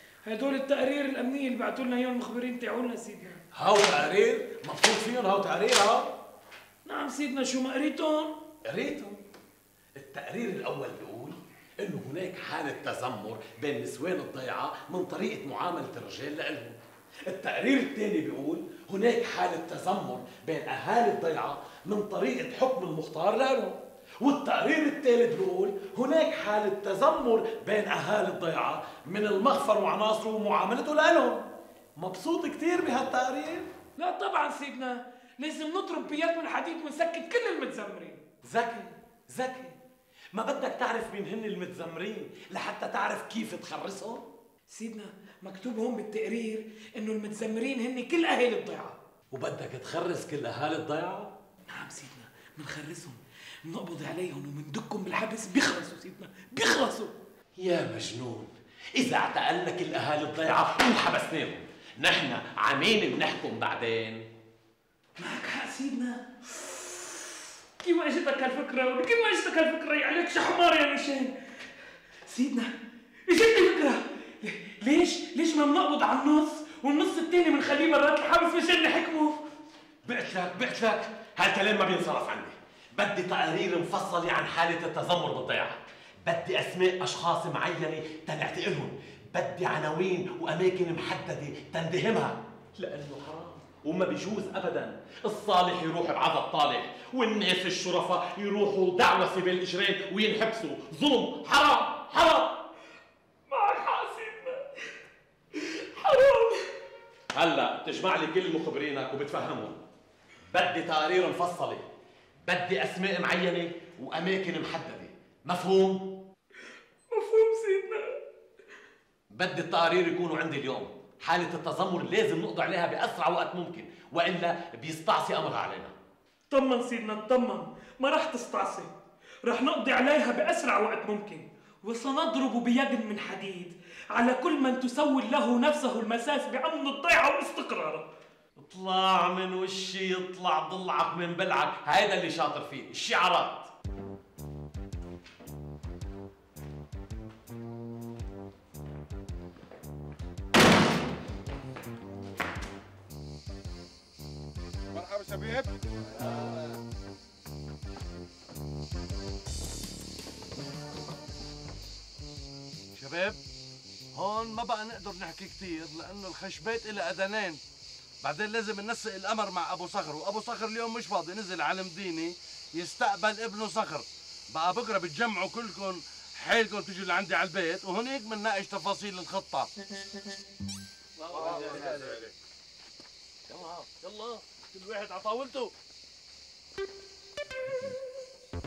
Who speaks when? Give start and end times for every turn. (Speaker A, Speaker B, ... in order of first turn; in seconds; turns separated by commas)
Speaker A: 0.2-3.4, Speaker B: 3.5-6.1, Speaker A: 6.8-8.3, Speaker B: 8.6-9.2, Speaker B: 10.0-31.4, Speaker B: 32.0-33.7, Speaker A: 34.0-38.2, Speaker B: 38.4-39.8, Speaker B: 40.3-44.2, Speaker A: 44.7-49.0, Speaker B: 49.3-51.3, Speaker A: 51.7-57.1, Speaker B: 57.6-64.2, Speaker A: 65.2-67.2, Speaker A: 67.8-71.3, Speaker A: 72.3-72.7, Speaker A: 73.3-79.4, Speaker B: 80.0-102.5, Speaker A: 103.5-104.6, Speaker A: 105.6-106.7, Speaker B: 107.3-109.8, Speaker B: 110.5-111.8, Speaker B: 112.4-116.1, Speaker A: 117.1-118.2, Speaker B: 119.3-125.9, Speaker A: 126.5-128.9, Speaker A: 129.4-138.1, Speaker B: 138.6-143.7, Speaker C: 162.9-163.4, Speaker C: 164.1-167.6, Speaker C: 168.2-179.7, Speaker B: 181.3-181.8, Speaker C: 181.3-182.2, Speaker B: 183.5-185.7